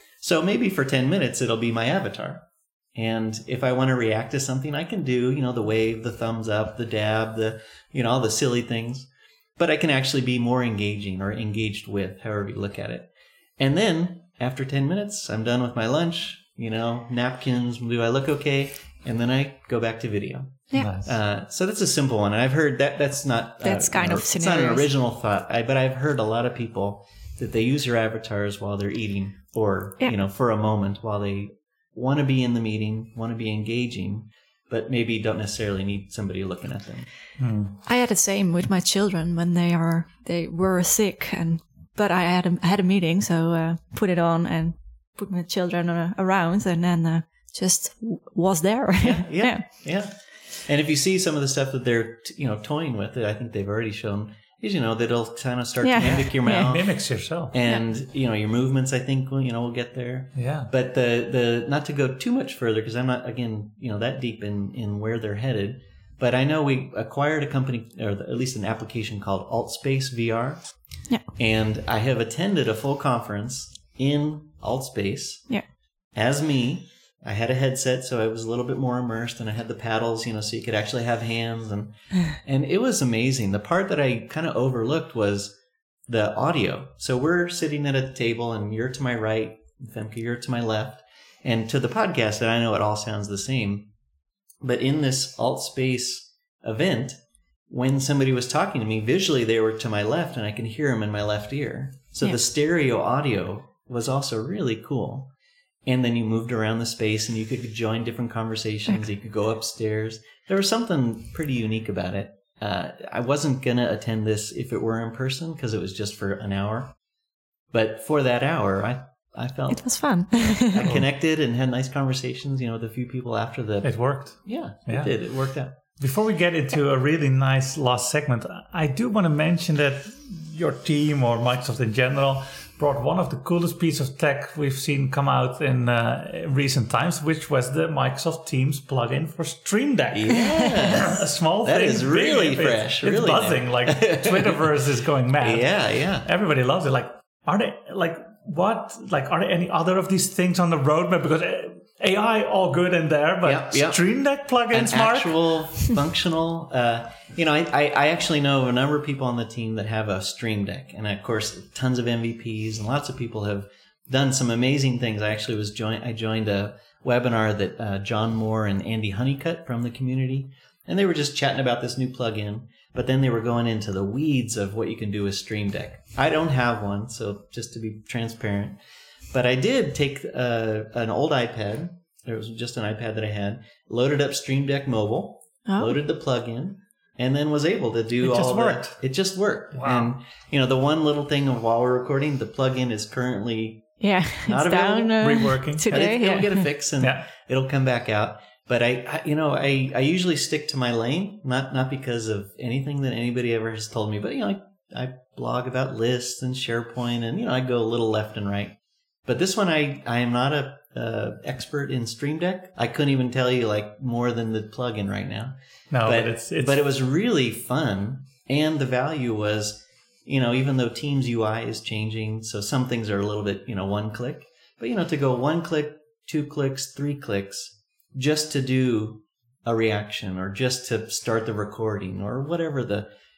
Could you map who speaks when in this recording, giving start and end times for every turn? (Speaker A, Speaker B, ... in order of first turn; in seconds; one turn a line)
Speaker A: 0.2-37.1
Speaker B: 20.7-21.1
Speaker C: 23.6-24.9
Speaker B: 37.4-37.8
Speaker C: 37.8-49.7
Speaker A: 49.0-93.9
Speaker C: 55.8-56.7
Speaker B: 56.0-57.5
Speaker B: 60.3-60.7
Speaker A: 94.6-105.3
Speaker A: 105.8-117.0
Speaker A: 117.7-125.8
Speaker C: 119.7-120.9
Speaker B: 123.8-155.6
Speaker A: 140.1-144.6
Speaker A: 145.4-146.3
Speaker A: 153.4-178.8
Speaker A: 179.3-233.1
Speaker C: 185.7-186.0
Speaker B: 188.2-190.1
Speaker C: 194.0-196.7
Speaker B: 195.2-196.2
Speaker B: 197.0-197.2
Speaker B: 215.9-216.8